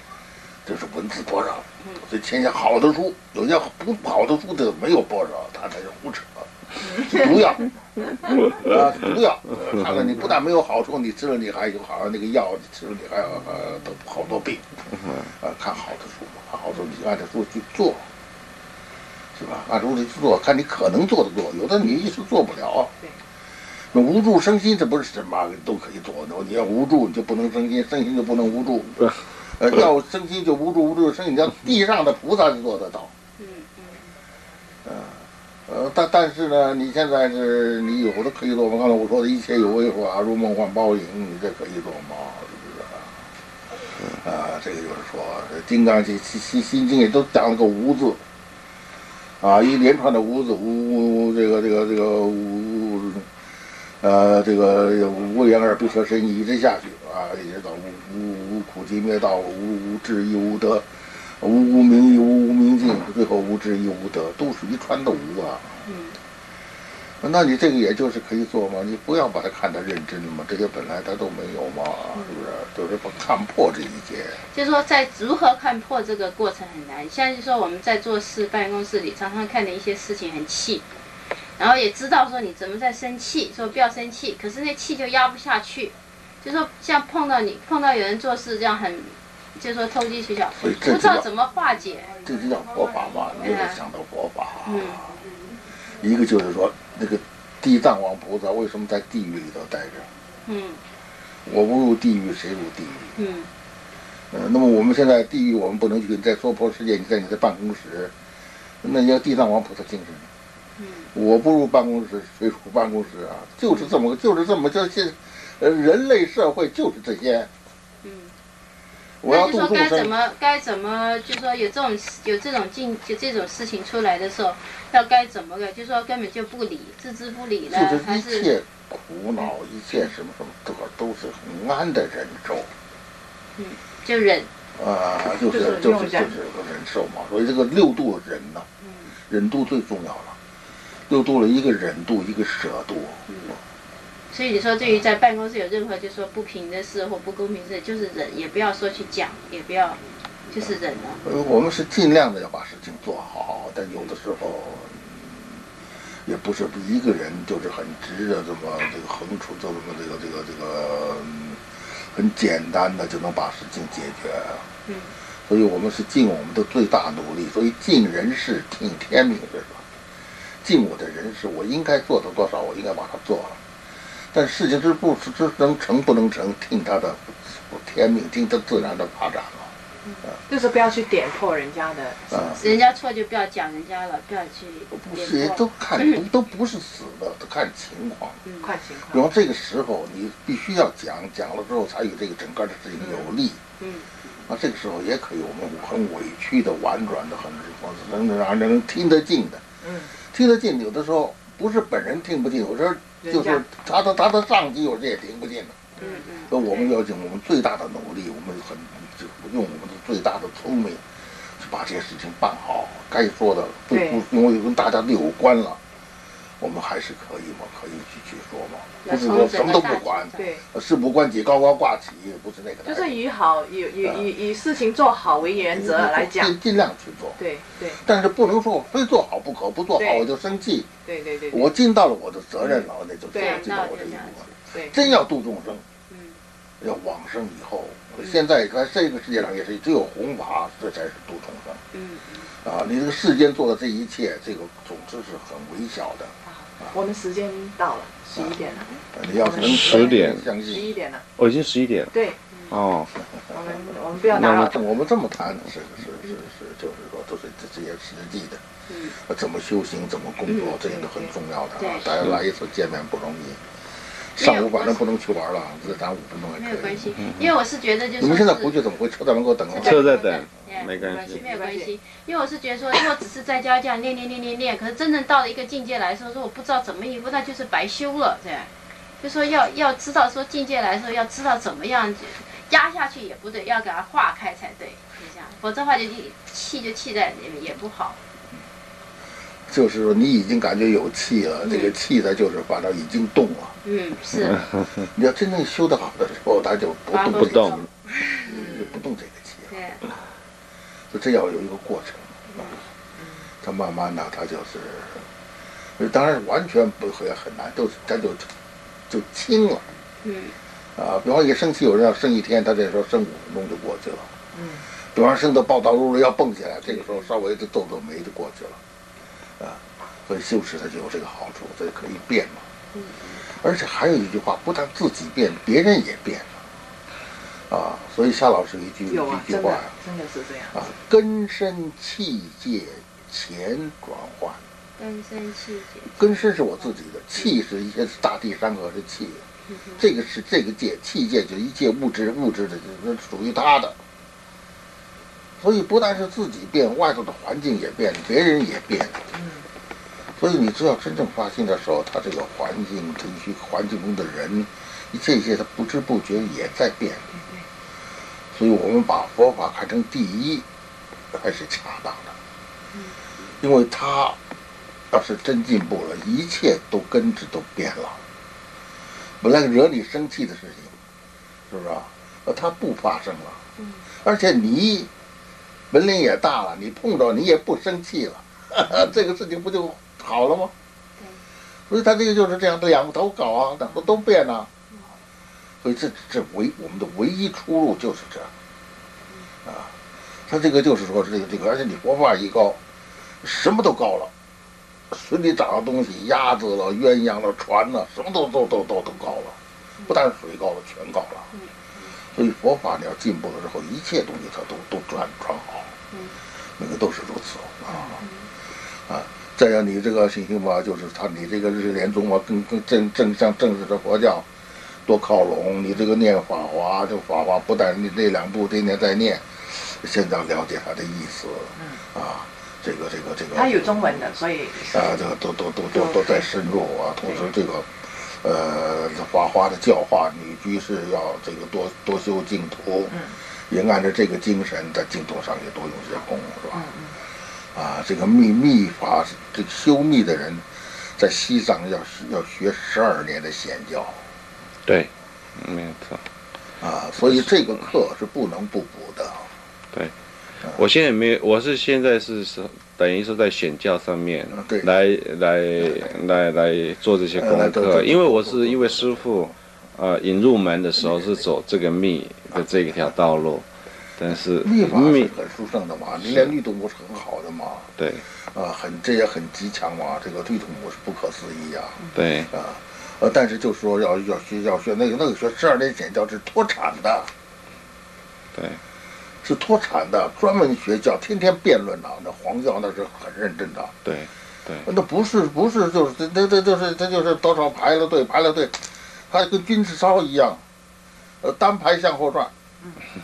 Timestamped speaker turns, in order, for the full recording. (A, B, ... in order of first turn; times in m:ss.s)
0:00.6-0:07.7 A
0:08.3-0:14.7 A
0:14.9-0:15.3 B
0:15.3-0:18.1 A
0:19.4-0:22.9 A
0:23.9-0:33.1 A
0:33.4-0:34.0 C
0:34.8-0:43.1 A
0:44.1-0:48.2 A
0:49.4-0:53.3 A
0:54.0-1:00.8 A
1:01.4-1:05.7 A
1:05.8-1:06.2 C
1:07.2-1:14.4 A
1:14.5-1:20.9 C
1:21.6-1:32.1 C
1:30.5-1:31.2 A
1:32.2-1:35.2 A
1:33.4-1:33.8 C
1:34.6-1:35.0 C
1:35.9-1:40.1 A
1:40.4-1:40.8 C
1:41.4-1:43.1 A
1:43.2-1:43.5 C
1:44.3-1:48.1 A
1:48.8-1:50.3 A
1:50.8-1:51.1 C
1:51.1-1:57.5 A
1:58.0-1:58.3 C
1:59.2-2:00.1 A
1:59.2-2:08.5 C
2:07.7-2:12.7 A
2:13.6-2:14.5 C
2:14.8-2:18.7 A
2:15.4-2:16.3 D
2:18.8-2:19.1 C
2:19.3-2:20.4 A
2:21.1-2:23.2 A
2:23.3-2:23.6 C
2:24.3-2:31.2 C
2:30.6-2:35.5 A
2:36.2-2:44.6 A
2:44.8-2:45.1 C
2:45.5-2:49.8 A
2:50.6-2:53.6 A
2:54.3-2:59.7 A
3:00.5-3:02.8 D
3:02.3-3:02.6 A
3:02.6-3:06.2 C
3:04.9-3:08.4 A
3:08.4-3:08.7 C
3:08.6-3:09.2 D
3:09.1-3:13.6 A
3:13.0-3:13.3 D
3:13.8-3:14.1 C
3:14.5-3:19.6 A
3:19.8-3:20.1 D
3:20.2-3:25.9 A
3:23.2-3:23.6 D
3:26.0-3:26.2 D
3:26.0-3:26.9 C
3:26.5-3:31.0 A
3:31.6-3:35.8 A
3:33.9-3:34.2 D
3:36.6-3:43.2 A
3:39.0-3:40.5 C
3:40.4-3:40.6 D
3:42.8-3:46.5 D
3:44.0-3:44.3 A
3:45.6-3:47.4 A
3:47.4-3:48.0 D
3:48.0-3:50.9 A
3:50.0-3:50.3 D
3:51.0-3:51.7 D
3:51.5-3:55.8 A
3:53.3-3:53.6 D
3:53.3-3:54.5 C
3:54.7-3:55.1 D
3:56.1-3:56.4 C
3:56.8-4:01.8 A
4:01.9-4:02.5 C
4:02.6-4:06.3 A
4:06.4-4:11.2 D
4:08.3-4:08.6 A
4:09.1-4:10.9 A
4:09.5-4:10.5 B
4:11.4-4:12.1 B
4:12.7-4:13.1 B
4:13.4-4:18.6 A
4:13.5-4:14.8 D
4:14.3-4:14.8 B
4:18.9-4:19.2 C
4:19.2-4:23.6 A
4:20.4-4:20.7 C
4:20.9-4:21.3 D
4:21.8-4:22.1 C
4:24.2-4:27.2 A
4:24.4-4:25.0 C
4:26.6-4:28.8 C
4:27.2-4:27.4 B
4:28.2-4:30.0 A
4:29.7-4:48.2 C
4:29.7-4:31.4 B
4:31.0-4:31.9 D
4:49.7-4:53.8 A
4:51.6-4:51.9 C
4:53.8-4:54.6 C
4:55.0-4:57.8 A
4:57.1-4:58.8 C
4:57.3-4:57.9 B
4:58.4-4:59.7 A
4:58.5-4:59.0 D
4:59.7-5:00.0 C
5:01.1-5:02.8 A
5:02.5-5:02.8 C
5:03.2-5:03.5 D
5:03.6-5:05.2 A
5:06.0-5:08.5 A
5:09.1-5:09.8 A
5:10.2-5:10.5 C
5:11.0-5:14.3 A
5:14.5-5:14.9 D
5:15.1-5:18.8 A
5:19.6-5:22.6 A
5:22.9-5:23.4 C
5:23.5-5:26.6 A
5:27.7-5:29.9 A
5:29.1-5:30.9 D
5:30.7-5:34.6 A
5:35.0-5:36.5 C
5:36.2-5:39.4 A
5:39.7-5:40.0 C
5:40.0-5:44.0 A
5:45.6-5:49.2 A
5:49.3-5:49.6 D
5:50.4-5:57.3 A
5:57.3-5:57.6 D
5:58.5-6:00.6 A
6:01.3-6:02.3 A
6:03.6-6:04.4 A
6:05.1-6:08.2 A
6:09.4-6:11.0 A
6:11.7-6:13.6 A
6:13.8-6:14.0 C
6:14.2-6:15.1 A
6:15.9-6:20.7 A
6:21.9-6:24.7 A
6:25.8-6:28.5 A
6:29.6-6:29.9 A
6:30.5-6:32.8 A
6:33.4-6:34.3 A
6:35.1-6:39.6 A
6:40.1-6:41.5 A
6:41.5-6:42.1 C
6:42.3-6:45.9 A
6:46.8-6:48.2 A
6:49.1-6:54.4 A
6:55.0-7:04.1 A
7:01.8-7:02.0 D
7:03.5-7:05.1 D
7:04.9-7:13.1 A
7:05.9-7:06.5 D
7:13.1-7:13.4 D
7:13.7-7:16.9 A
7:16.7-7:17.2 D
7:17.7-7:24.2 A
7:24.8-7:26.2 B
7:26.8-7:29.5 A
7:27.2-7:27.5 B
7:30.7-7:43.6 B
7:34.5-7:34.9 A
7:37.3-7:39.3 A
7:41.0-7:41.4 A
7:44.2-7:45.3 B
7:44.6-7:57.3 A
7:46.2-7:46.5 B
7:48.0-7:48.2 B
7:52.1-7:52.5 B
7:58.5-7:58.8 B
7:59.4-8:04.0 A
8:04.0-8:04.9 B
8:04.8-8:10.6 A
8:11.4-8:12.5 A